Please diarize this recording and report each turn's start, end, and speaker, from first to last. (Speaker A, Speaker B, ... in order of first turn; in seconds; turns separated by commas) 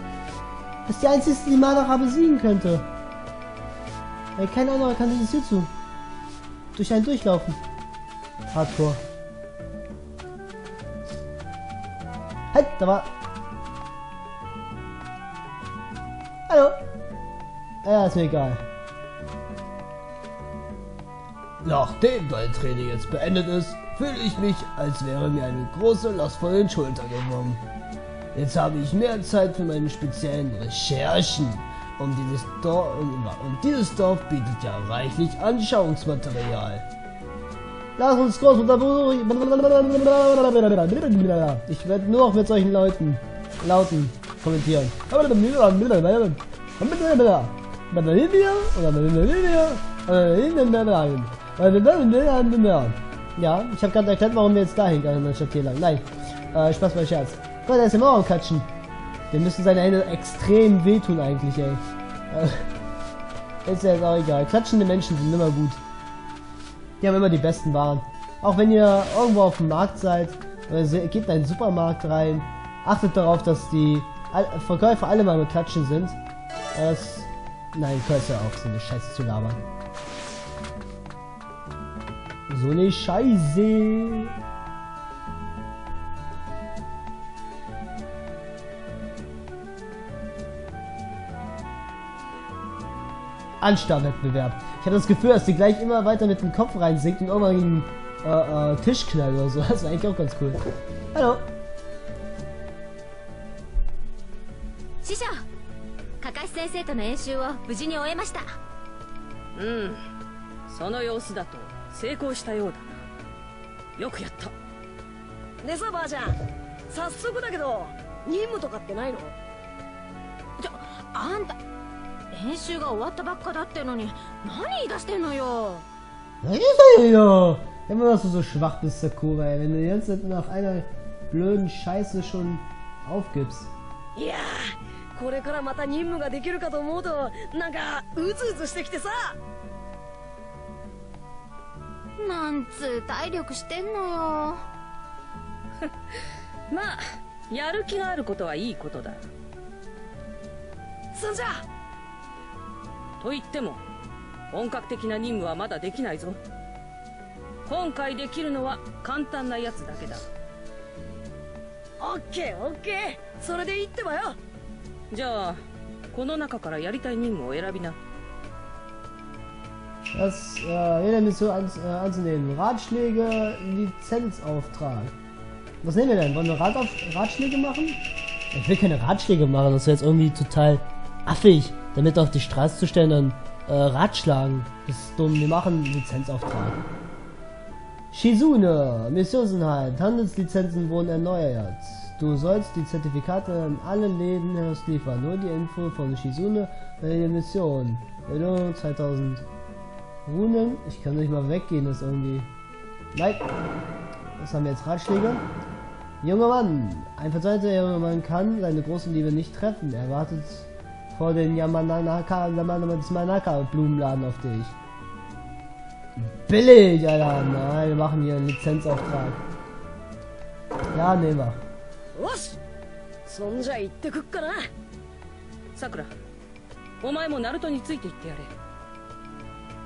Speaker A: 0.9-2.9, Speaker A: 4.4-5.7, Speaker A: 6.7-7.6, Speaker A: 8.5-9.0, Speaker A: 12.5-13.1, Speaker A: 16.5-16.8, Speaker A: 17.8-18.6, Speaker A: 21.6-27.6, Speaker A: 28.3-36.9, Speaker A: 38.0-58.7, Speaker A: 59.3-62.7, Speaker A: 63.6-65.8, Speaker A: 67.0-76.2, Speaker A: 76.7-79.6, Speaker A: 82.5-84.3, Speaker A: 93.6-100.6, Speaker A: 101.1-101.5, Speaker B: 105.0-105.4, Speaker B: 106.2-108.5, Speaker C: 109.6-110.0, Speaker C: 110.7-113.0, Speaker C: 114.0-114.5, Speaker D: 115.6-119.3, Speaker B: 120.6-121.6, Speaker B: 122.3-125.9, Speaker A: 126.4-133.7, Speaker D: 134.2-139.4, Speaker B: 142.2-144.6, Speaker C: 146.7-149.3, Speaker D: 151.1-151.6, Speaker C: 153.2-153.8, Speaker C: 154.5-156.4, Speaker C: 157.7-160.3, Speaker D: 162.0-164.4, Speaker C: 165.1-168.0, Speaker A: 170.1-175.2, Speaker A: 175.8-178.0, Speaker A: 178.5-186.8, Speaker A: 188.1-199.4, Speaker A: 200.3-202.5, Speaker A: 203.1-203.5, Speaker A: 204.4-205.4, Speaker A: 206.2-214.8, Speaker A: 216.2-219.4, Speaker A: 220.9-221.6, Speaker D: 222.2-222.6, Speaker D: 223.3-224.7, Speaker C: 225.8-226.1, Speaker C: 227.0-228.5